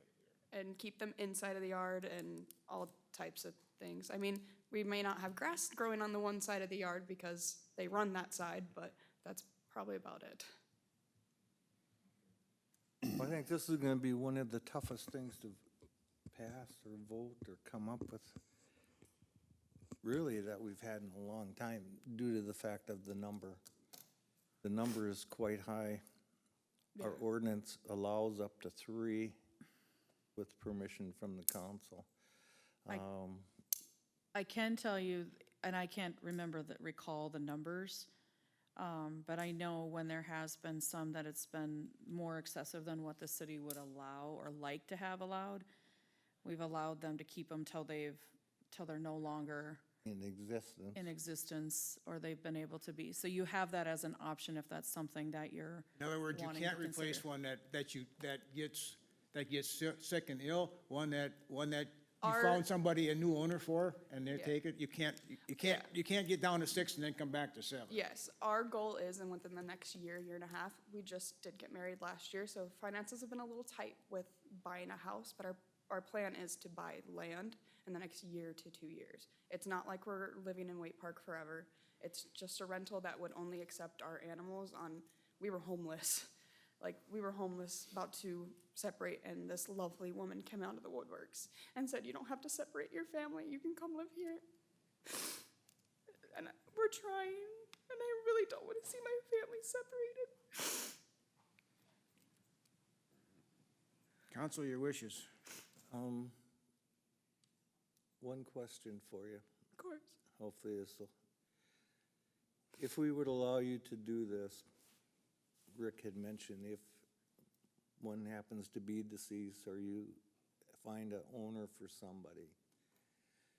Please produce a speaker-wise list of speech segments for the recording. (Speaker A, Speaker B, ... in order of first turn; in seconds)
Speaker A: 0.5-10.5, 27.0-27.2, 62.2-62.6, 64.3-64.6, 67.9-94.4, 95.1-95.4, 96.3-101.0, 109.8-110.1
Speaker B: 13.1-15.6, 16.3-18.4, 20.0-23.6, 24.6-26.0, 27.0-29.4, 30.4-32.1, 32.9-33.5, 50.0-51.1, 105.9-106.3, 108.2-109.4, 110.4-111.1, 112.8-114.6, 115.7-117.0, 118.0-120.2, 120.8-122.6
Speaker C: 34.4-38.1, 38.8-45.7, 46.4-49.8, 50.9-57.2
Speaker D: 56.0-68.0, 104.3-105.3